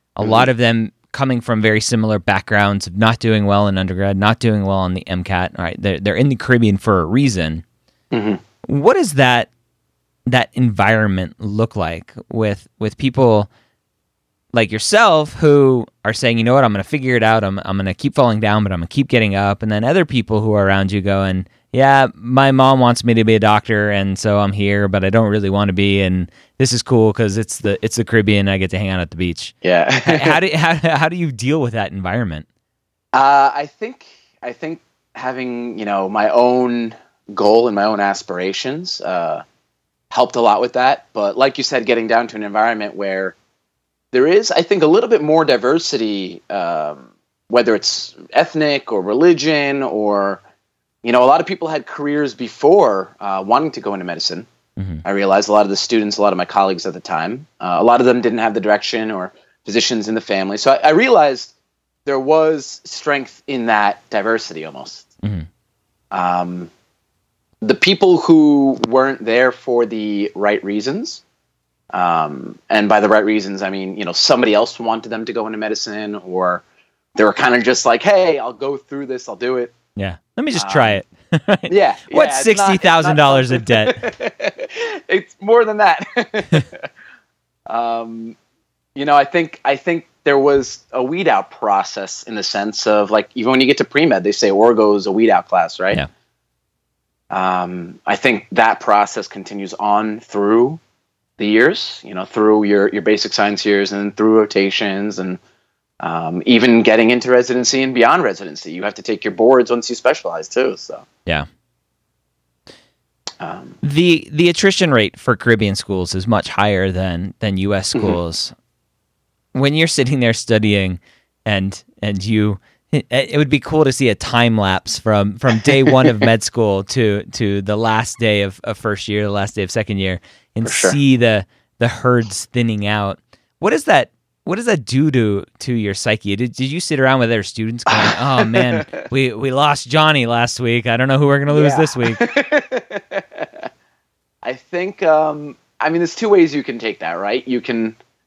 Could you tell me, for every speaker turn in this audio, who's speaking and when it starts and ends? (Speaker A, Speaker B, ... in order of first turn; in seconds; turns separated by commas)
Speaker A: 0.1-7.6, Speaker B: 8.1-8.4, Speaker A: 8.6-9.5, Speaker A: 10.3-13.5, Speaker A: 14.5-32.5, Speaker B: 29.6-30.4, Speaker B: 33.1-39.4, Speaker B: 40.1-43.4, Speaker B: 44.1-50.4, Speaker B: 51.0-54.5, Speaker A: 54.8-55.0, Speaker B: 55.0-61.5, Speaker B: 62.0-65.1, Speaker B: 66.1-66.7, Speaker B: 67.6-71.2, Speaker B: 71.9-76.6, Speaker B: 77.2-79.7, Speaker A: 80.0-84.0, Speaker B: 80.5-81.0, Speaker B: 81.7-86.8, Speaker B: 87.7-88.3, Speaker B: 88.9-96.0, Speaker B: 97.3-100.8, Speaker B: 101.4-105.4, Speaker B: 106.0-111.0, Speaker B: 113.4-113.8, Speaker A: 113.8-118.5, Speaker A: 119.5-142.2, Speaker B: 125.7-126.2, Speaker B: 130.6-131.0, Speaker B: 137.9-138.9, Speaker B: 141.5-143.7, Speaker B: 144.4-148.0